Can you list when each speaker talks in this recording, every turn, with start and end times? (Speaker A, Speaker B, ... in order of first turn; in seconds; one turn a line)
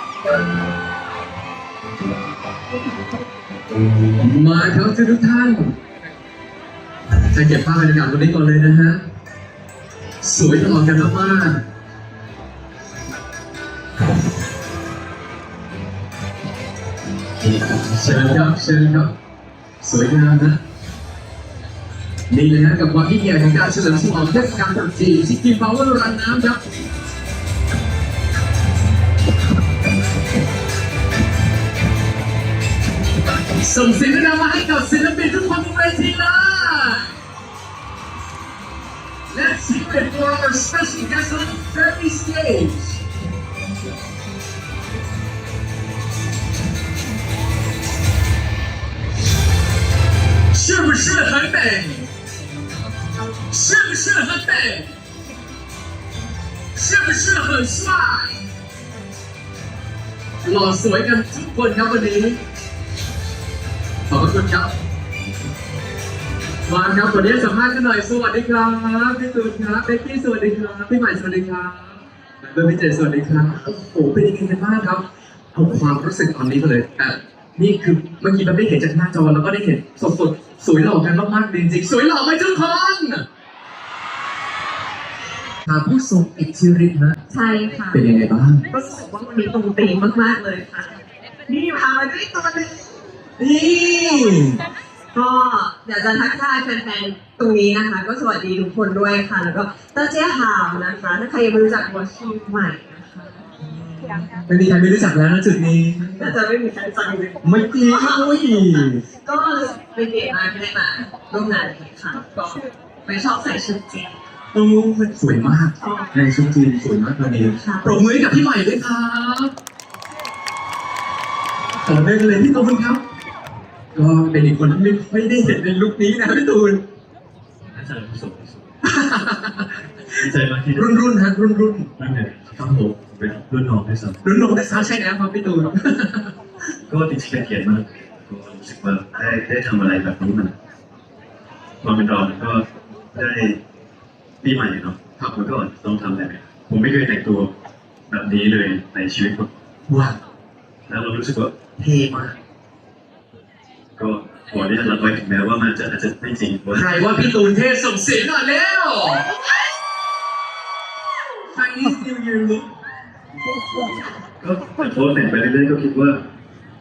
Speaker A: 4.2-5.8
Speaker A: 7.3-9.0
Speaker A: 10.2-11.7
Speaker A: 17.7-19.1
Speaker A: 19.8-20.6
Speaker A: 22.3-26.6
Speaker A: 33.6-37.2
Speaker A: 39.3-43.0
Speaker A: 50.5-52.1
Speaker A: 53.5-54.9
Speaker A: 56.7-58.4
Speaker A: 60.4-62.4
Speaker A: 64.1-64.7
Speaker A: 66.7-83.3
Speaker A: 85.7-87.2
Speaker B: 87.3-88.0
Speaker A: 87.9-88.7
Speaker B: 88.7-93.0
Speaker A: 93.4-94.6
Speaker B: 95.1-103.5
Speaker A: 103.8-106.3
Speaker B: 106.2-112.3
Speaker A: 107.4-109.0
Speaker A: 112.3-112.6
Speaker B: 113.0-114.2
Speaker A: 114.5-119.5
Speaker B: 115.8-116.2
Speaker B: 117.4-118.1
Speaker A: 121.8-123.0
Speaker A: 123.9-126.9
Speaker C: 127.7-128.7
Speaker A: 128.8-130.2
Speaker C: 130.1-131.1
Speaker A: 130.7-131.9
Speaker C: 132.0-134.2
Speaker A: 132.6-133.0
Speaker A: 134.2-136.3
Speaker C: 136.9-140.6
Speaker C: 141.8-143.6
Speaker C: 144.4-147.6
Speaker C: 148.1-149.5
Speaker A: 149.9-150.2
Speaker C: 150.9-151.6
Speaker A: 151.8-152.3
Speaker C: 154.0-157.2
Speaker A: 156.7-159.3
Speaker A: 161.5-162.7
Speaker C: 164.4-166.3